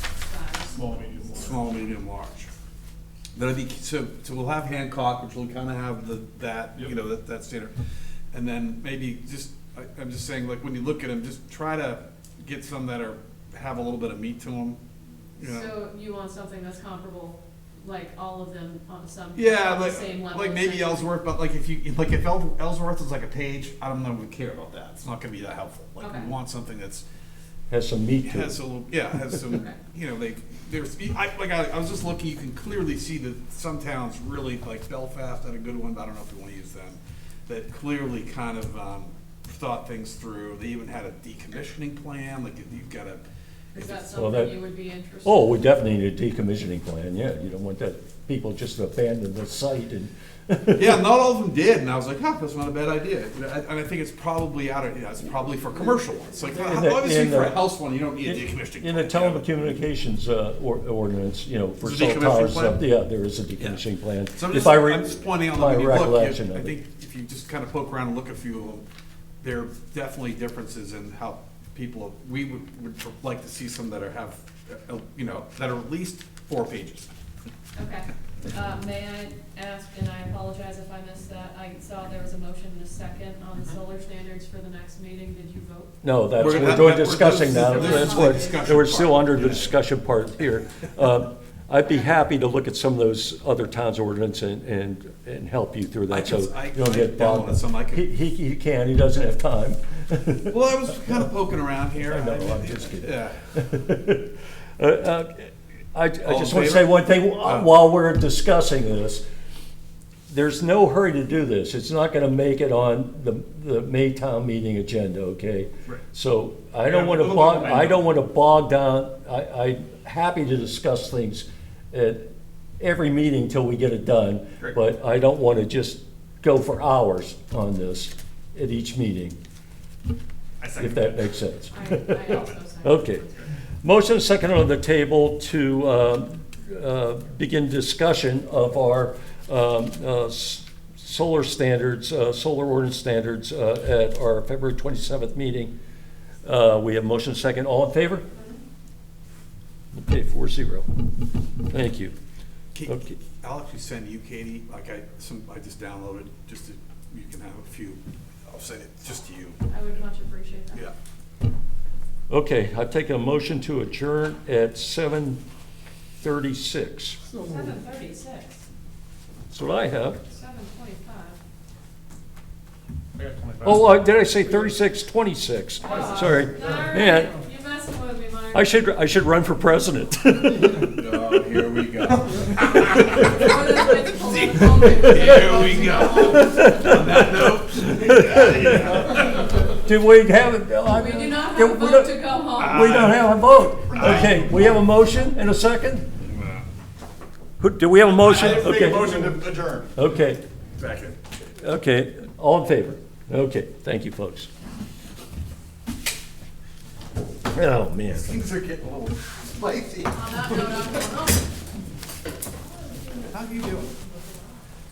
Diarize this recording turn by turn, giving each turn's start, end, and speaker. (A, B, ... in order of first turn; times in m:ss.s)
0:00.2-0:01.0 A
0:00.7-0:01.7 B
0:01.3-0:02.5 C
0:03.4-0:07.7 C
0:08.3-0:14.8 C
0:15.4-0:15.8 C
0:15.4-0:21.2 A
0:19.4-0:27.0 C
0:26.0-0:26.3 A
0:27.7-0:28.6 D
0:28.2-0:43.2 C
0:43.7-0:45.5 A
0:43.8-0:44.1 C
0:44.2-0:44.6 D
0:45.2-0:51.0 D
0:50.7-0:59.4 C
0:56.6-0:57.6 D
0:58.3-1:06.7 D
1:01.8-1:02.8 C
1:03.6-1:08.8 C
1:09.4-1:17.1 C
1:17.8-1:25.9 A
1:26.0-1:40.6 D
1:26.4-1:29.8 C
1:27.5-1:28.6 A
1:36.1-1:38.1 C
1:40.5-1:43.4 C
1:42.0-1:49.2 D
1:46.3-1:47.7 C
1:50.3-2:02.3 D
1:56.9-1:57.9 B
2:02.8-2:09.4 D
2:10.6-2:11.4 B
2:10.8-2:13.2 D
2:11.7-2:13.5 A
2:13.8-2:25.7 D
2:26.4-2:28.3 D
2:28.3-2:28.6 A
2:29.9-2:30.9 D
2:31.7-2:32.1 D
2:32.7-2:39.6 C
2:32.9-2:33.2 D
2:39.7-2:40.8 A
2:42.3-2:45.4 D
2:46.2-2:47.2 D
2:47.4-2:48.6 A
2:49.5-2:50.2 D
2:50.3-2:51.4 A
2:53.2-2:54.0 B
2:53.6-2:57.4 D
2:55.8-2:58.7 A
2:58.5-3:01.0 D
3:00.8-3:03.3 C
3:03.0-3:06.6 A
3:04.3-3:09.4 C
3:06.3-3:16.1 D
3:10.9-3:13.0 A
3:12.6-3:13.3 C
3:13.9-3:14.5 C
3:16.4-3:16.6 C
3:17.6-3:20.4 D
3:18.1-3:20.0 C
3:20.8-3:21.2 C
3:21.6-3:24.5 D
3:27.5-3:28.4 D
3:28.1-3:30.6 C
3:30.1-3:31.5 A
3:33.2-3:33.9 C